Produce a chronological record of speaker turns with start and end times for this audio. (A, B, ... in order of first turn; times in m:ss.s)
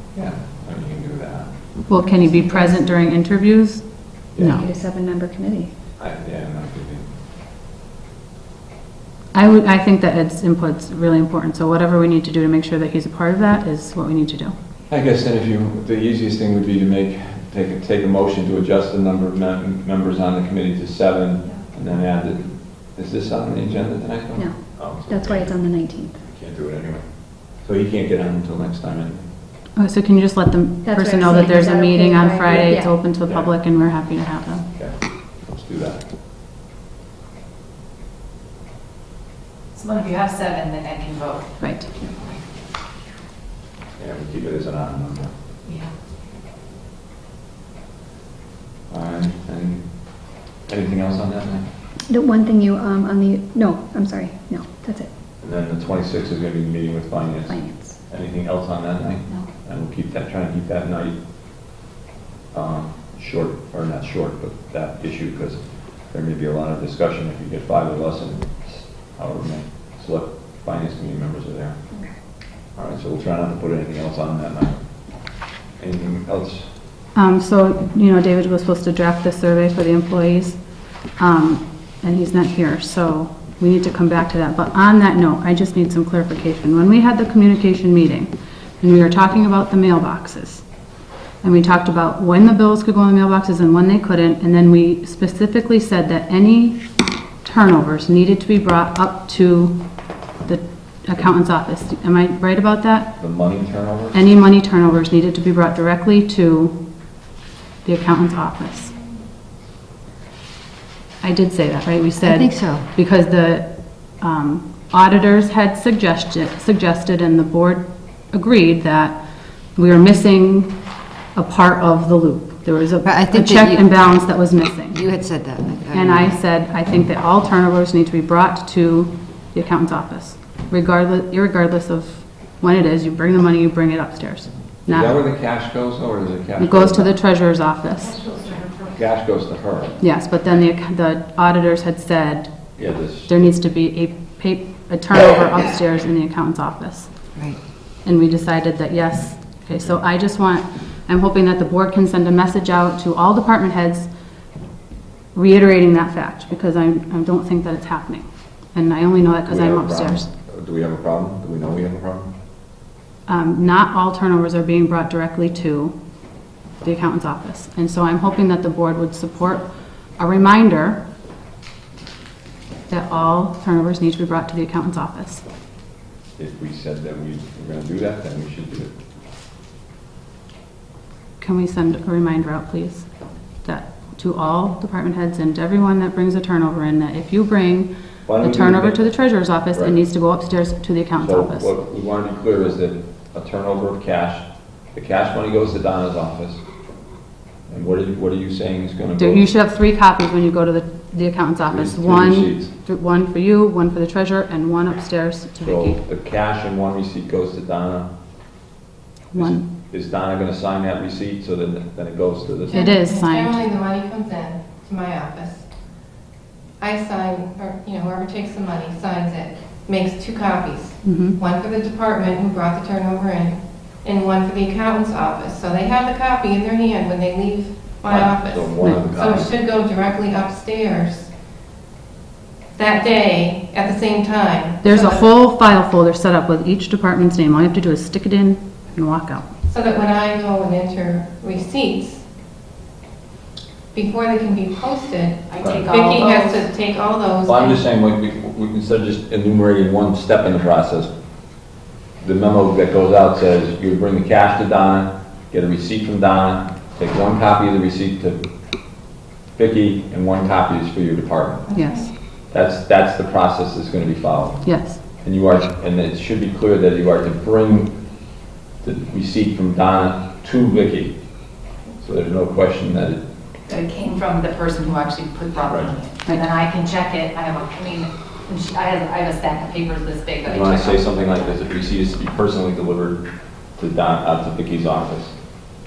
0:00.1-0:01.7 A
0:01.9-0:04.6 B
0:02.0-0:02.8 C
0:04.4-0:04.6 A
0:04.4-0:05.8 C
0:06.0-0:07.1 A
0:09.3-0:14.6 B
0:14.9-0:25.6 A
0:24.3-0:26.2 C
0:26.2-0:29.3 A
0:29.8-0:34.7 B
0:30.8-0:33.0 C
0:33.2-0:33.6 A
0:34.8-0:36.0 A
0:39.7-0:42.4 D
0:41.6-0:41.9 B
0:44.0-0:45.3 A
0:45.6-0:45.9 D
0:48.9-0:51.6 A
0:52.1-0:55.1 C
0:55.4-1:01.2 A
0:57.5-0:58.0 C
1:02.5-1:11.8 A
1:12.7-1:16.7 A
1:17.1-1:20.6 B
1:21.2-1:30.6 B
1:31.4-1:36.8 B
1:37.4-1:39.8 B
1:40.4-1:43.2 B
1:43.2-1:44.2 A
1:44.1-1:46.8 B
1:47.8-1:48.9 B
1:51.2-1:59.2 B
1:52.2-1:52.8 E
1:59.7-2:00.8 B
2:01.3-2:05.1 B
2:03.0-2:03.9 E
2:04.9-2:06.3 E
2:05.9-2:15.2 B
2:14.9-2:17.2 A
2:16.6-2:18.2 B
2:18.0-2:19.0 D
2:19.0-2:20.0 A
2:20.0-2:22.6 B
2:22.8-2:23.4 A
2:23.2-2:27.1 B
2:28.0-2:34.1 B
2:35.3-2:40.3 B
2:39.5-2:42.3 A
2:43.3-2:46.0 B
2:46.8-2:51.0 B
2:52.9-2:55.4 B
2:56.4-2:58.9 A
3:01.4-3:03.1 B
3:03.6-3:11.7 B
3:08.2-3:10.0 A
3:11.2-3:16.6 A
3:17.7-3:19.5 A
3:19.2-3:26.0 B
3:21.7-3:22.7 A
3:25.6-3:28.1 A
3:29.3-3:29.6 B
3:29.3-3:32.9 A
3:32.7-3:35.7 F
3:32.7-3:33.6 B
3:36.8-3:51.3 F
3:41.0-3:41.4 B
3:48.0-3:49.5 A
3:52.8-3:55.3 F
3:54.8-3:59.5 B
3:59.7-4:02.2 F
4:03.9-4:07.8 F
4:05.5-4:06.7 D
4:05.6-4:05.9 A
4:07.4-4:11.1 A
4:12.2-4:18.4 A
4:19.5-4:21.7 A
4:21.7-4:22.1 F
4:21.7-4:22.1 B
4:22.5-4:28.2 A
4:24.6-4:25.0 B
4:28.8-4:31.2 A
4:32.0-4:33.2 A
4:33.7-4:41.5 D
4:35.7-4:35.9 A
4:40.4-4:45.4 A